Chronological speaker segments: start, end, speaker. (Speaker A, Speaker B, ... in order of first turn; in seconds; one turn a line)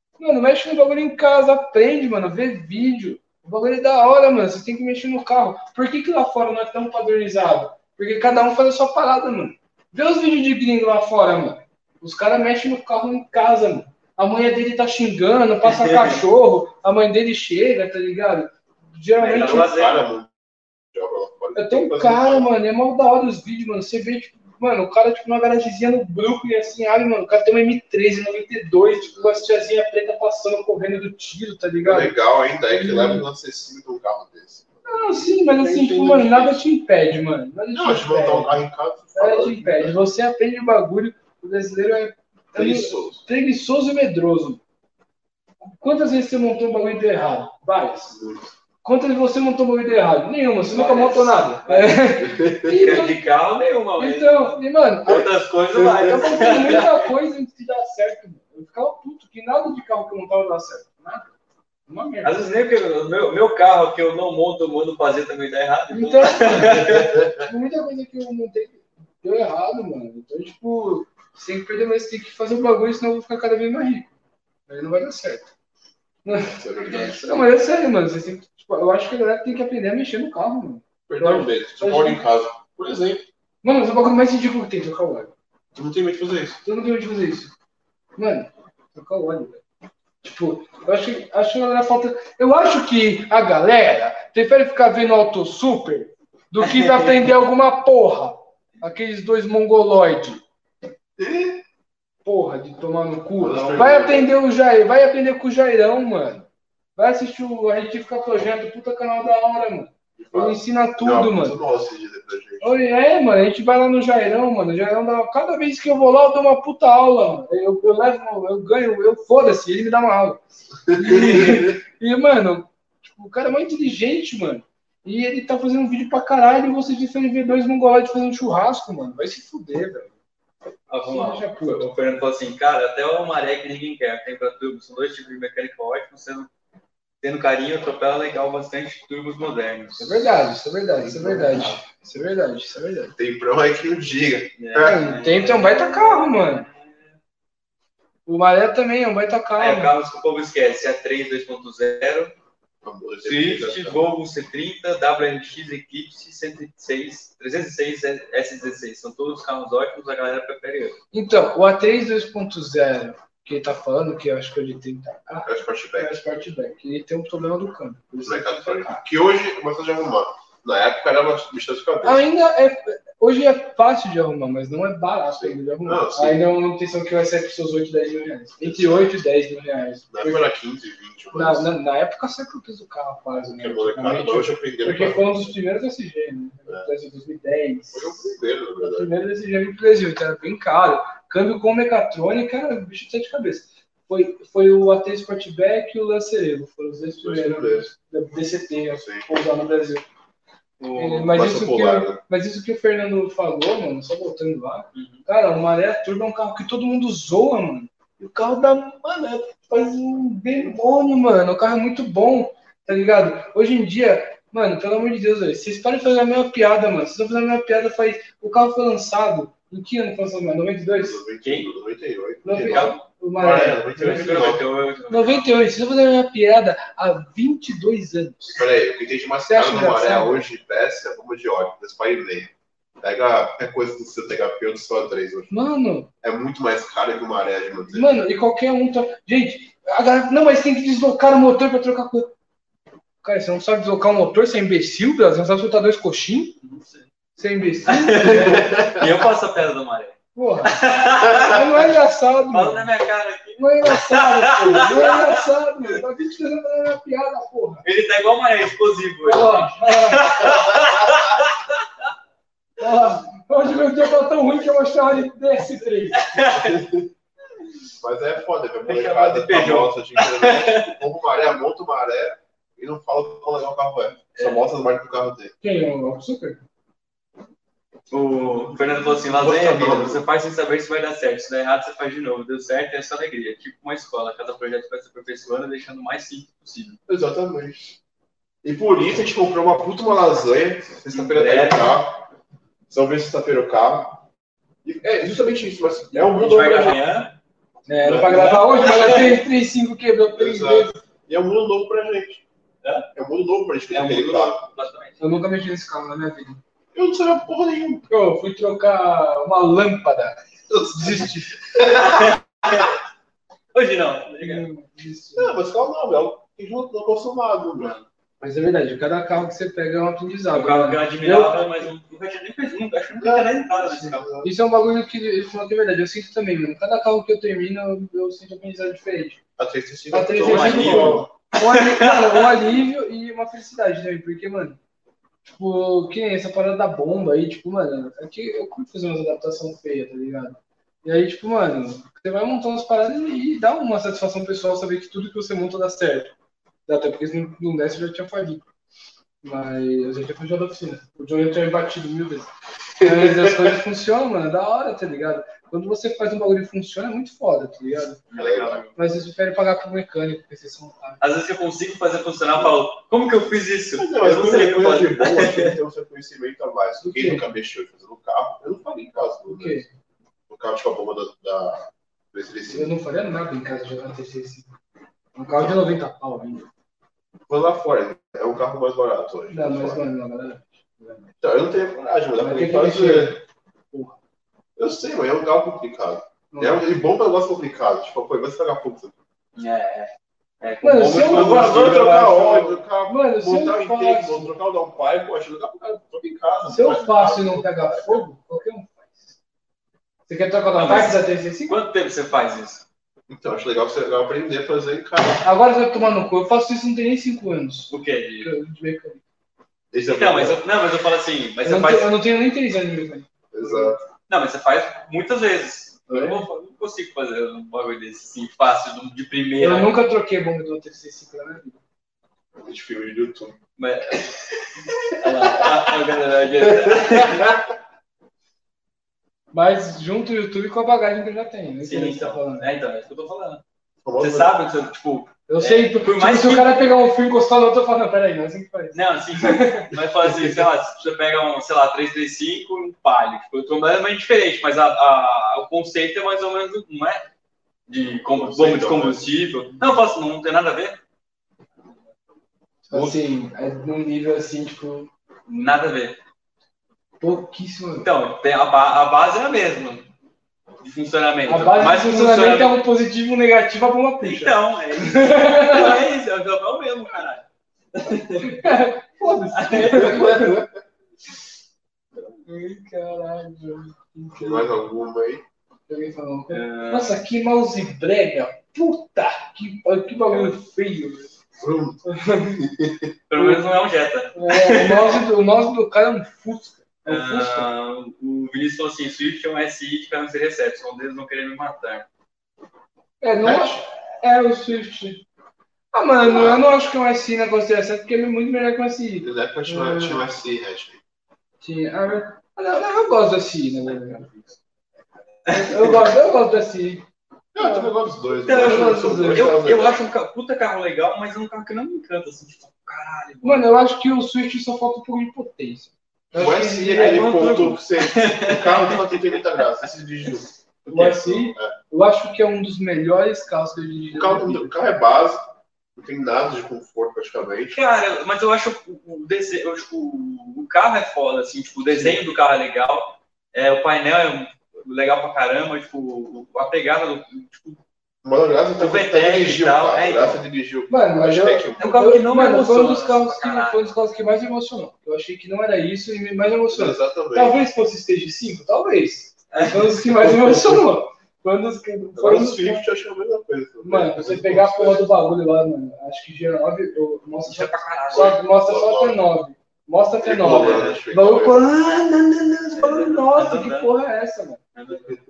Speaker A: 0.2-19.7
Speaker B: 15.6-16.2
Speaker B: 19.2-20.1
Speaker C: 19.3-22.5
Speaker A: 21.6-32.1
Speaker C: 29.0-29.4
Speaker C: 31.8-36.6
Speaker A: 32.7-33.2
Speaker A: 34.8-44.6
Speaker C: 37.7-40.0
Speaker C: 42.5-43.2
Speaker A: 45.6-48.2
Speaker C: 48.1-48.5
Speaker A: 48.8-53.2
Speaker B: 50.7-57.0
Speaker C: 52.2-52.9
Speaker A: 54.0-55.3
Speaker C: 55.1-56.8
Speaker A: 55.9-61.3
Speaker A: 61.9-62.4
Speaker B: 62.2-67.2
Speaker A: 65.9-74.1
Speaker C: 66.8-67.4
Speaker A: 74.7-75.5
Speaker A: 76.2-76.6
Speaker C: 76.5-77.4
Speaker B: 76.9-77.2
Speaker A: 77.2-82.2
Speaker C: 81.1-83.2
Speaker A: 83.6-85.3
Speaker C: 85.7-86.6
Speaker A: 86.6-87.5
Speaker A: 88.2-89.6
Speaker A: 90.2-100.4
Speaker B: 96.7-96.9
Speaker C: 101.2-101.6
Speaker A: 102.2-111.6
Speaker C: 103.4-104.3
Speaker C: 110.2-112.8
Speaker A: 112.6-130.2
Speaker C: 120.9-121.7
Speaker B: 130.9-136.5
Speaker A: 131.0-131.9
Speaker B: 137.2-140.2
Speaker A: 140.0-143.1
Speaker C: 141.0-141.8
Speaker C: 143.2-145.0
Speaker B: 144.6-147.2
Speaker A: 144.8-146.7
Speaker A: 148.3-149.9
Speaker B: 149.6-152.3
Speaker C: 152.8-154.0
Speaker B: 153.2-161.0
Speaker A: 161.1-169.0
Speaker C: 165.4-166.2
Speaker C: 168.2-172.2
Speaker A: 172.0-180.5
Speaker C: 175.3-176.4
Speaker C: 178.6-179.2
Speaker C: 180.1-181.7
Speaker A: 181.3-200.0
Speaker C: 183.4-185.5
Speaker C: 187.9-189.1
Speaker C: 197.2-197.9
Speaker C: 198.9-199.3
Speaker B: 200.8-201.3
Speaker A: 200.9-221.2
Speaker C: 201.3-202.2
Speaker B: 204.9-205.2
Speaker C: 221.0-224.6
Speaker B: 221.4-221.7
Speaker A: 222.4-224.6
Speaker B: 222.6-223.0
Speaker B: 224.0-225.6
Speaker A: 225.1-228.6
Speaker C: 228.5-235.5
Speaker A: 229.4-230.4
Speaker A: 235.5-236.1
Speaker C: 236.2-238.2
Speaker A: 237.9-242.3
Speaker A: 243.2-246.6
Speaker B: 246.6-247.1
Speaker A: 247.4-248.7
Speaker B: 247.9-251.8
Speaker C: 248.3-249.1
Speaker A: 250.3-252.9
Speaker B: 252.5-255.4
Speaker A: 253.6-257.8
Speaker B: 257.8-261.6
Speaker A: 259.2-260.6
Speaker A: 262.8-266.2
Speaker B: 266.1-266.8
Speaker C: 266.5-267.1
Speaker C: 268.0-275.5
Speaker B: 268.9-271.0
Speaker B: 274.4-274.7
Speaker A: 275.6-276.6
Speaker B: 278.1-287.0
Speaker C: 279.3-280.2
Speaker C: 287.1-288.0
Speaker C: 288.6-292.3
Speaker B: 291.1-292.0
Speaker C: 292.9-294.2
Speaker C: 294.8-297.0
Speaker B: 296.1-297.3
Speaker A: 297.9-301.0
Speaker C: 298.0-298.9
Speaker B: 298.2-299.4
Speaker C: 300.4-302.4
Speaker C: 303.1-304.6
Speaker B: 303.9-305.2
Speaker A: 305.2-306.6
Speaker C: 306.9-308.1
Speaker A: 308.1-311.6
Speaker C: 310.7-312.3
Speaker B: 312.1-312.9
Speaker B: 313.7-314.6
Speaker A: 314.4-315.6
Speaker C: 315.4-318.0
Speaker A: 318.4-321.9
Speaker B: 320.5-324.2
Speaker C: 323.2-324.5
Speaker A: 324.4-329.4
Speaker C: 329.6-331.3
Speaker A: 330.1-334.8
Speaker B: 330.3-332.5
Speaker A: 335.4-346.3
Speaker A: 346.9-348.6
Speaker A: 349.4-358.2
Speaker B: 358.3-358.9
Speaker C: 358.4-358.8
Speaker A: 358.9-361.2
Speaker B: 361.2-365.8
Speaker C: 364.0-369.8
Speaker A: 367.0-367.5
Speaker A: 369.5-369.9
Speaker C: 370.5-372.9
Speaker A: 372.7-374.7
Speaker A: 375.3-376.7
Speaker C: 375.5-375.8
Speaker C: 377.5-380.1
Speaker A: 379.5-381.3
Speaker C: 381.4-383.4
Speaker A: 382.4-383.4
Speaker A: 383.9-384.2
Speaker C: 384.8-389.1
Speaker A: 386.5-386.9
Speaker B: 389.5-392.4
Speaker A: 390.8-394.5
Speaker C: 391.0-398.2
Speaker A: 396.7-399.3
Speaker A: 400.3-401.8
Speaker B: 400.8-402.8
Speaker C: 403.3-405.4
Speaker A: 405.4-409.2
Speaker B: 407.9-408.5
Speaker C: 409.9-410.6
Speaker B: 410.1-412.1
Speaker A: 411.6-414.0
Speaker C: 413.5-414.0
Speaker B: 414.3-419.9
Speaker A: 416.1-416.4
Speaker A: 419.6-421.8
Speaker C: 422.6-423.6
Speaker B: 423.8-427.6
Speaker C: 425.4-425.8
Speaker C: 426.6-427.6
Speaker A: 429.5-432.7
Speaker B: 431.8-433.6
Speaker C: 434.0-434.5
Speaker B: 434.2-436.7
Speaker A: 435.5-439.9
Speaker B: 438.9-447.2
Speaker C: 440.2-440.6
Speaker B: 447.9-451.0
Speaker C: 448.3-449.3
Speaker A: 452.9-455.1
Speaker C: 452.9-453.2
Speaker B: 455.5-456.2
Speaker A: 457.2-458.1
Speaker B: 458.0-460.1
Speaker B: 460.8-462.8
Speaker A: 461.4-466.0
Speaker B: 464.2-468.8
Speaker A: 468.4-470.6
Speaker B: 469.5-470.3
Speaker C: 469.8-470.7
Speaker A: 472.4-474.7
Speaker C: 474.4-475.4
Speaker A: 475.9-481.3
Speaker B: 476.5-477.2
Speaker B: 480.3-480.5
Speaker C: 481.6-482.0
Speaker A: 482.0-482.6
Speaker C: 482.6-483.1
Speaker B: 483.3-485.2
Speaker A: 483.3-483.6
Speaker A: 484.3-487.7
Speaker B: 487.1-492.1
Speaker A: 493.2-495.2
Speaker C: 493.4-493.8
Speaker A: 495.9-500.2
Speaker C: 496.2-496.6
Speaker C: 499.2-501.0
Speaker A: 501.6-504.3
Speaker B: 505.4-505.9
Speaker A: 505.5-507.0
Speaker C: 507.5-510.0
Speaker A: 507.6-507.9
Speaker B: 508.4-513.8
Speaker A: 508.5-509.5
Speaker A: 513.4-517.7
Speaker C: 516.3-520.5
Speaker B: 517.0-519.2
Speaker B: 520.9-521.5
Speaker A: 520.9-524.7
Speaker C: 524.1-525.4
Speaker C: 526.0-527.8
Speaker B: 527.7-537.8
Speaker C: 531.9-532.2
Speaker C: 538.2-542.0
Speaker B: 538.8-540.4
Speaker A: 540.9-552.9
Speaker B: 541.8-544.0
Speaker C: 546.7-547.6
Speaker B: 549.5-549.9
Speaker C: 550.2-550.8
Speaker C: 552.1-555.1
Speaker A: 553.8-564.6
Speaker B: 557.5-558.4
Speaker C: 558.1-559.2
Speaker C: 560.2-561.7
Speaker B: 560.4-561.0
Speaker B: 562.7-563.9
Speaker B: 564.7-565.2